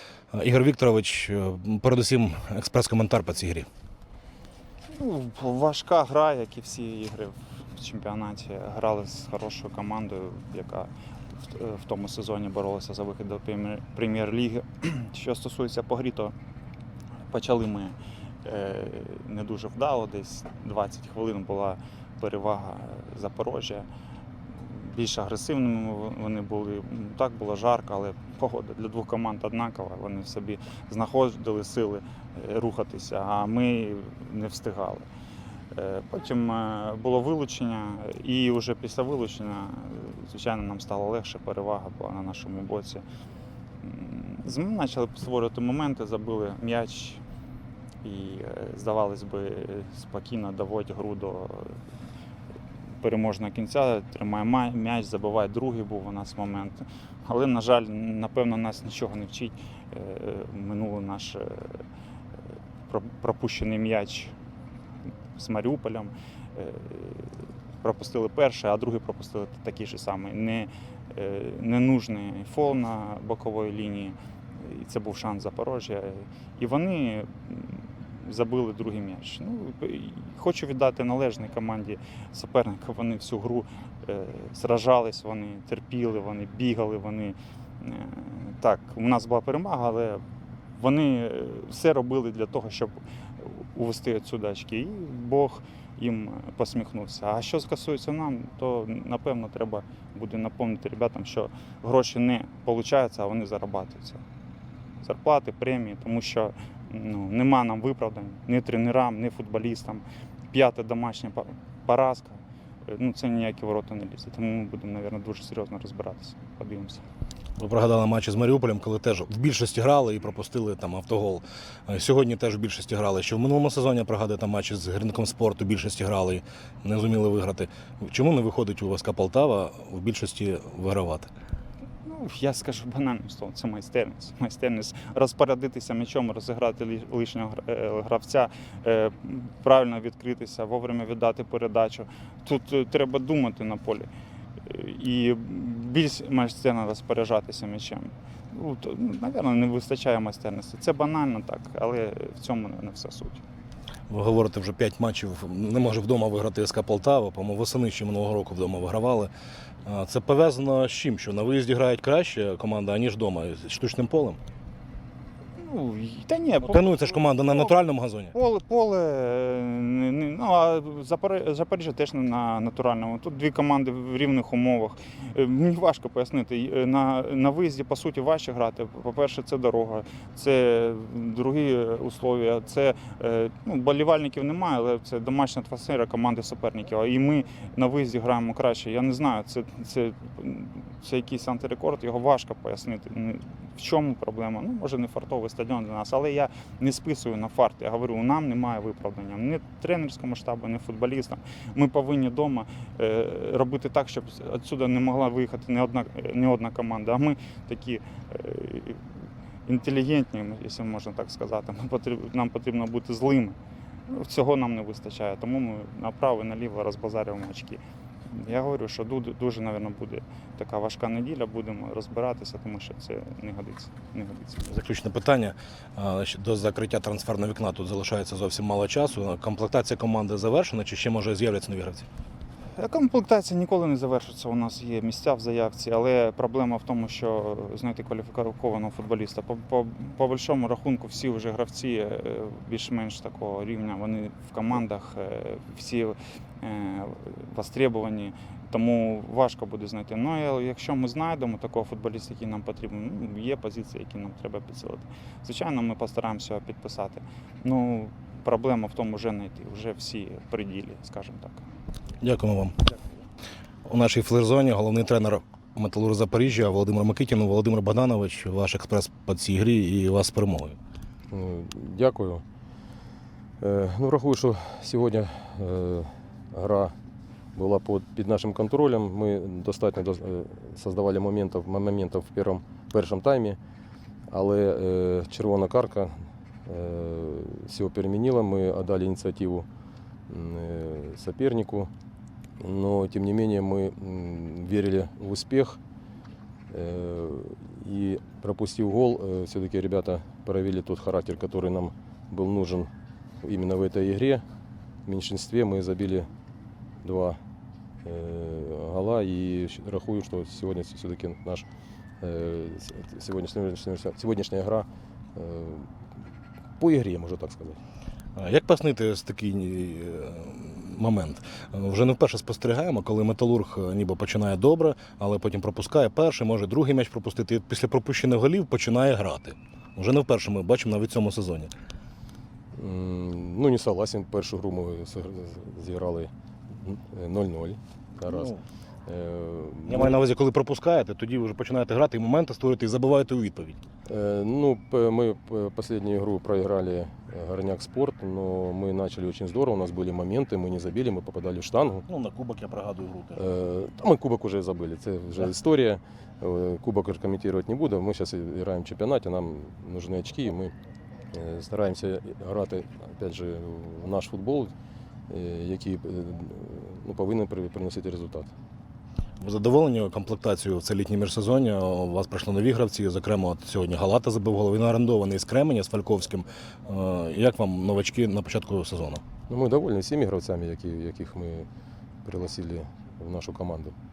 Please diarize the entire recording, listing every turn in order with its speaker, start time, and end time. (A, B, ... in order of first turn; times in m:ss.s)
0:00.3-0:03.7 A
0:04.9-0:16.3 B
0:17.3-0:23.9 B
0:24.5-0:35.1 B
0:35.7-0:43.0 B
0:43.8-0:47.2 B
0:48.0-0:51.8 B
0:53.0-1:01.8 B
1:02.9-1:04.3 B
1:05.3-1:44.2 B
1:45.0-1:57.0 B
1:57.6-2:11.3 A
2:12.0-2:33.4 B
2:34.1-2:39.3 A
2:39.8-2:44.4 A
2:45.6-2:47.7 B
2:46.7-2:48.3 A
2:48.3-3:44.7 B
3:44.7-3:52.0 A
3:52.8-4:21.6 B
4:22.2-4:22.8 A
4:23.8-4:30.8 A
4:31.3-4:32.4 C
4:33.6-4:36.9 C
4:37.5-4:43.6 C
4:44.3-4:49.7 C
4:50.3-4:51.9 C
4:52.6-4:55.8 C
4:56.7-5:04.4 C
5:05.0-5:06.3 C
5:07.0-5:07.4 C
5:08.0-5:11.7 C
5:12.2-5:15.9 C
5:16.8-5:17.8 C
5:18.4-5:31.7 A
5:32.7-5:38.5 C
5:38.3-5:38.6 A
5:39.0-5:40.2 C
5:39.8-5:43.8 A
5:44.1-5:52.0 C
5:52.1-5:53.4 A
5:53.4-6:00.7 C
6:01.3-6:04.7 C
6:05.3-6:08.5 C
6:09.4-6:19.2 A
6:19.5-6:21.7 C
6:22.2-6:23.9 C